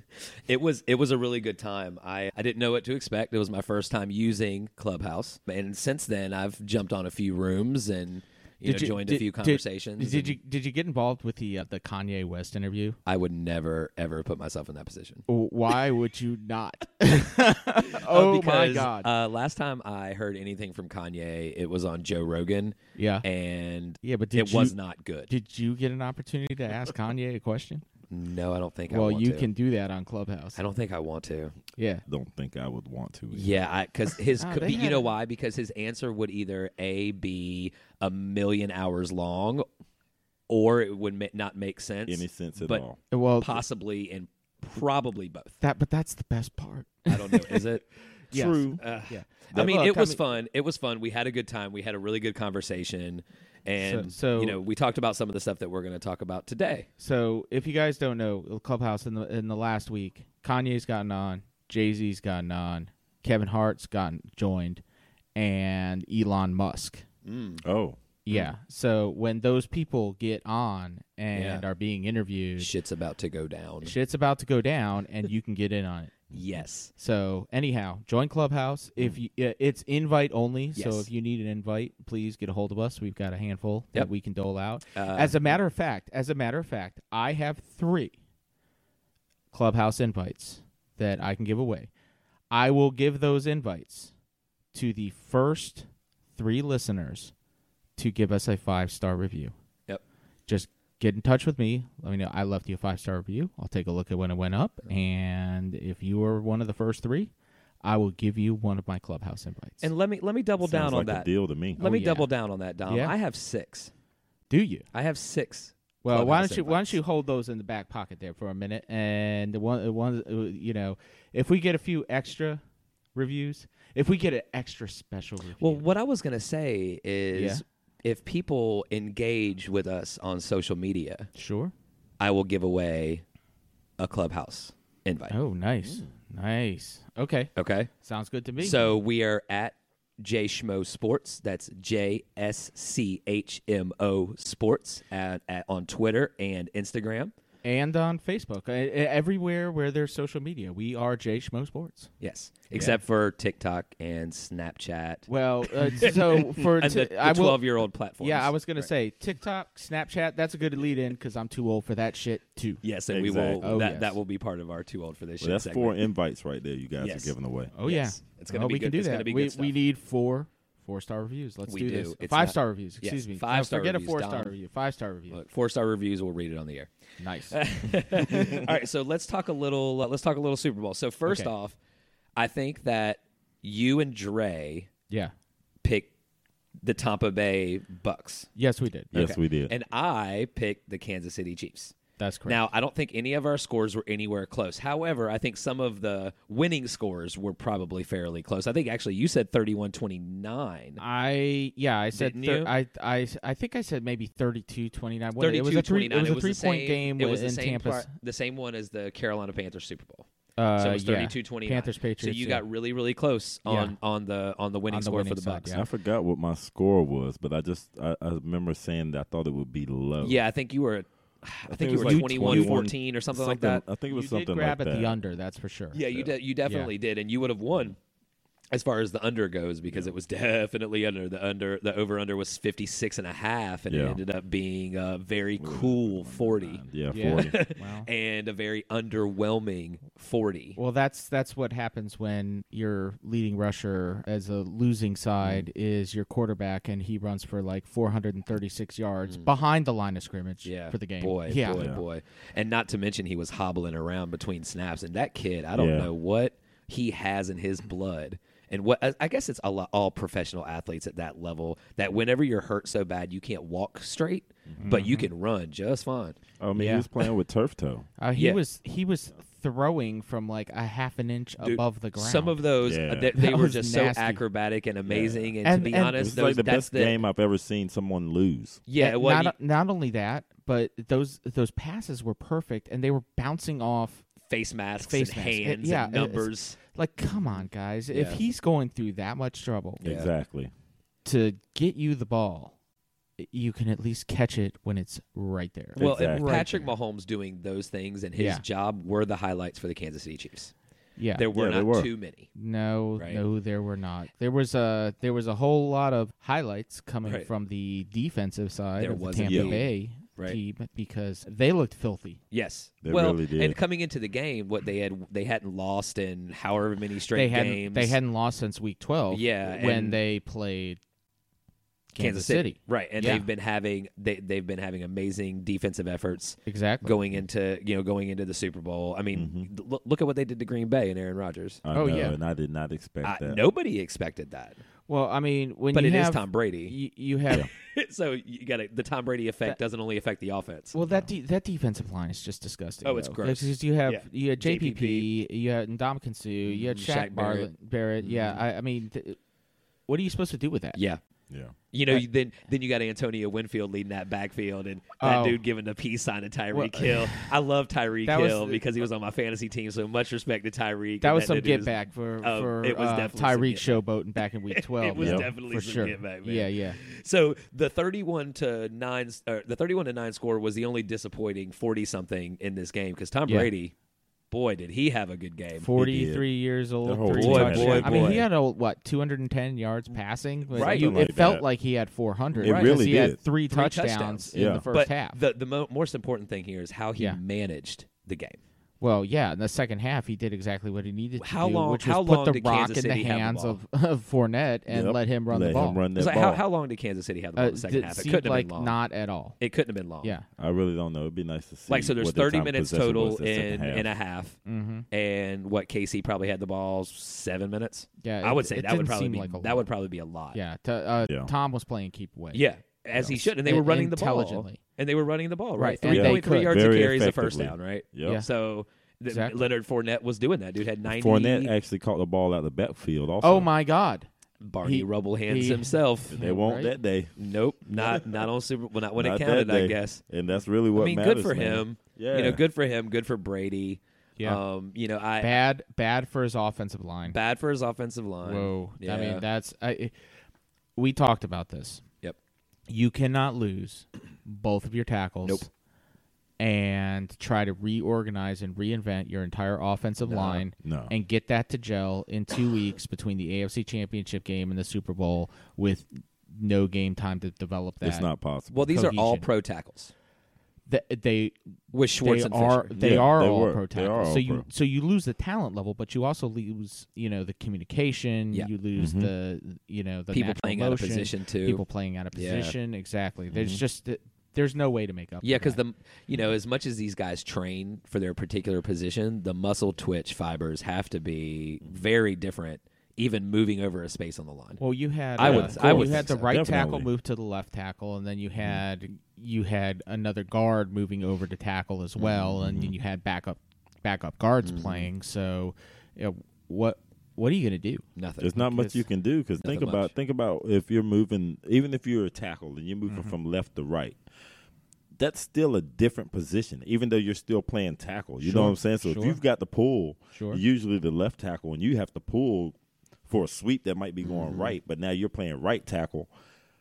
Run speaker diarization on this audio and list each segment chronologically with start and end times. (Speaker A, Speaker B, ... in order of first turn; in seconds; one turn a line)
Speaker A: 0.5-10.4
Speaker B: 8.6-13.0
Speaker A: 13.1-15.2
Speaker B: 15.3-19.1
Speaker A: 17.8-25.3
Speaker B: 23.0-23.2
Speaker B: 24.0-24.8
Speaker B: 25.3-27.9
Speaker A: 28.1-29.5
Speaker B: 28.9-30.6
Speaker A: 30.6-31.6
Speaker B: 31.8-32.0
Speaker C: 32.1-33.6
Speaker A: 33.3-39.7
Speaker B: 34.4-35.1
Speaker A: 40.5-42.8
Speaker C: 42.1-43.0
Speaker B: 43.1-43.6
Speaker A: 43.4-45.5
Speaker B: 45.6-47.7
Speaker A: 47.1-47.9
Speaker B: 48.3-50.2
Speaker C: 48.3-48.8
Speaker A: 48.8-56.9
Speaker B: 53.8-54.6
Speaker B: 57.0-64.8
Speaker B: 65.4-67.0
Speaker A: 67.2-67.6
Speaker C: 67.6-68.0
Speaker B: 68.3-72.7
Speaker A: 71.3-71.6
Speaker A: 72.6-73.9
Speaker B: 73.8-76.3
Speaker A: 76.3-76.9
Speaker B: 77.0-88.2
Speaker A: 80.8-81.1
Speaker A: 85.0-85.5
Speaker B: 89.5-91.9
Speaker B: 92.5-94.1
Speaker B: 94.7-97.3
Speaker B: 98.0-99.5
Speaker B: 100.5-107.3
Speaker B: 107.8-109.9
Speaker A: 109.8-113.9
Speaker C: 110.6-111.8
Speaker B: 111.8-112.3
Speaker B: 112.9-113.1
Speaker B: 114.5-114.9
Speaker A: 114.9-117.0
Speaker B: 116.0-122.6
Speaker B: 123.2-125.9
Speaker A: 125.6-131.3
Speaker B: 127.3-127.6
Speaker B: 131.3-131.7
Speaker A: 132.2-133.2
Speaker A: 134.0-135.4
Speaker B: 135.3-138.9
Speaker A: 137.6-137.9
Speaker A: 138.6-147.3
Speaker B: 147.6-152.1
Speaker A: 152.2-155.3
Speaker B: 152.7-153.0
Speaker B: 155.3-157.7
Speaker A: 155.9-158.9
Speaker B: 158.2-162.8
Speaker A: 162.8-166.0
Speaker C: 163.1-163.6
Speaker B: 163.6-164.2
Speaker C: 165.4-167.7
Speaker A: 167.0-169.7
Speaker B: 167.8-175.4
Speaker A: 171.7-174.5
Speaker A: 175.3-176.9
Speaker B: 177.2-177.6
Speaker A: 177.5-181.8
Speaker B: 178.1-178.7
Speaker A: 182.4-184.9
Speaker A: 185.8-186.1
Speaker A: 186.8-188.5
Speaker B: 188.6-189.1
Speaker C: 189.1-189.7
Speaker A: 189.1-191.9
Speaker B: 192.2-192.6
Speaker A: 192.5-201.0
Speaker B: 201.0-208.1
Speaker A: 202.1-202.7
Speaker A: 205.4-210.3
Speaker B: 210.6-212.6
Speaker A: 210.8-215.7
Speaker B: 213.7-214.0
Speaker B: 214.9-215.8
Speaker C: 215.7-220.4
Speaker A: 220.2-223.8
Speaker C: 221.7-225.2
Speaker B: 221.9-222.9
Speaker B: 224.1-226.0
Speaker A: 225.9-228.0
Speaker B: 226.7-226.9
Speaker A: 228.7-240.8
Speaker C: 229.9-230.1
Speaker C: 233.9-234.2
Speaker C: 235.6-237.6
Speaker B: 237.1-238.1
Speaker B: 240.8-251.8
Speaker A: 245.4-245.7
Speaker A: 250.6-266.4
Speaker C: 251.8-252.0
Speaker C: 255.8-256.1
Speaker B: 264.8-265.3
Speaker C: 266.6-268.1
Speaker B: 266.8-267.1
Speaker B: 268.2-272.6
Speaker A: 268.4-268.6
Speaker A: 271.6-277.2
Speaker C: 272.8-273.3
Speaker B: 273.4-274.4
Speaker C: 275.1-275.5
Speaker B: 275.6-276.3
Speaker C: 276.2-278.8
Speaker A: 278.9-279.5
Speaker B: 279.0-284.3
Speaker A: 284.5-286.8
Speaker B: 285.0-290.0
Speaker A: 287.4-288.4
Speaker A: 290.0-290.3
Speaker C: 290.0-290.7
Speaker B: 291.2-292.8
Speaker B: 293.4-296.9
Speaker A: 296.0-300.7
Speaker C: 296.0-296.6
Speaker B: 298.4-298.6
Speaker B: 301.2-301.4
Speaker A: 301.4-302.5
Speaker C: 301.5-302.1
Speaker B: 302.6-312.4
Speaker A: 309.0-310.6
Speaker C: 309.5-309.8
Speaker A: 312.5-318.2
Speaker C: 313.0-313.8
Speaker B: 317.3-321.0
Speaker A: 319.3-320.2
Speaker A: 322.1-331.8
Speaker B: 322.2-323.5
Speaker B: 326.7-327.2
Speaker C: 329.3-329.7
Speaker C: 331.9-333.6
Speaker B: 331.9-332.4
Speaker A: 333.2-334.8
Speaker B: 335.1-337.7
Speaker A: 335.9-336.9
Speaker A: 337.7-341.0
Speaker B: 340.9-349.4
Speaker C: 341.0-341.3
Speaker A: 343.0-345.3
Speaker A: 346.6-348.6
Speaker B: 350.1-351.0
Speaker C: 351.5-351.8
Speaker A: 351.9-373.9
Speaker B: 355.2-355.6
Speaker B: 356.7-357.5
Speaker B: 358.3-358.8
Speaker B: 361.2-367.0
Speaker C: 365.2-365.5
Speaker A: 374.5-375.9
Speaker B: 375.8-385.4
Speaker C: 375.9-376.5
Speaker C: 377.1-378.5
Speaker A: 377.3-378.4
Speaker A: 380.7-381.2
Speaker C: 380.7-381.6
Speaker C: 382.6-383.4
Speaker A: 382.6-383.1
Speaker A: 383.7-388.6
Speaker C: 384.5-384.9
Speaker B: 389.0-396.0
Speaker A: 391.4-393.8
Speaker C: 394.9-396.6
Speaker A: 396.2-399.0
Speaker B: 397.6-399.6
Speaker A: 399.6-400.4
Speaker C: 400.6-404.1
Speaker A: 401.9-404.6
Speaker B: 404.7-405.1
Speaker A: 405.1-410.6
Speaker B: 408.2-409.9
Speaker B: 410.5-412.6
Speaker C: 411.2-411.5
Speaker A: 412.5-421.7
Speaker B: 413.2-414.8
Speaker B: 415.8-416.8
Speaker C: 416.1-418.4
Speaker B: 419.3-419.6
Speaker C: 421.1-423.7
Speaker B: 423.4-424.3
Speaker A: 424.6-426.4
Speaker B: 424.8-426.9
Speaker C: 426.3-427.3
Speaker A: 427.4-430.2
Speaker C: 427.9-428.5
Speaker C: 429.2-432.6
Speaker A: 430.9-435.6
Speaker B: 435.4-437.4
Speaker A: 437.3-439.4
Speaker B: 438.4-440.1
Speaker B: 441.0-442.0
Speaker B: 442.9-445.7
Speaker B: 446.6-458.3
Speaker A: 450.2-450.6
Speaker C: 450.8-451.1
Speaker C: 458.0-459.0
Speaker A: 458.7-460.1
Speaker B: 458.9-459.5
Speaker B: 460.9-461.6
Speaker A: 461.9-463.0
Speaker B: 462.2-475.8
Speaker C: 463.0-464.7
Speaker C: 469.0-469.3
Speaker A: 470.3-472.8
Speaker C: 473.5-473.8
Speaker A: 475.4-484.8
Speaker B: 484.8-498.1
Speaker A: 485.4-486.5
Speaker C: 485.4-487.1
Speaker C: 492.4-492.9
Speaker A: 494.6-495.1
Speaker A: 498.2-498.6
Speaker C: 498.4-504.2
Speaker B: 498.6-499.0
Speaker A: 499.6-500.1
Speaker B: 503.1-503.4
Speaker C: 505.2-512.8
Speaker B: 508.4-509.4
Speaker B: 510.4-510.6
Speaker C: 513.3-516.3
Speaker A: 514.2-514.8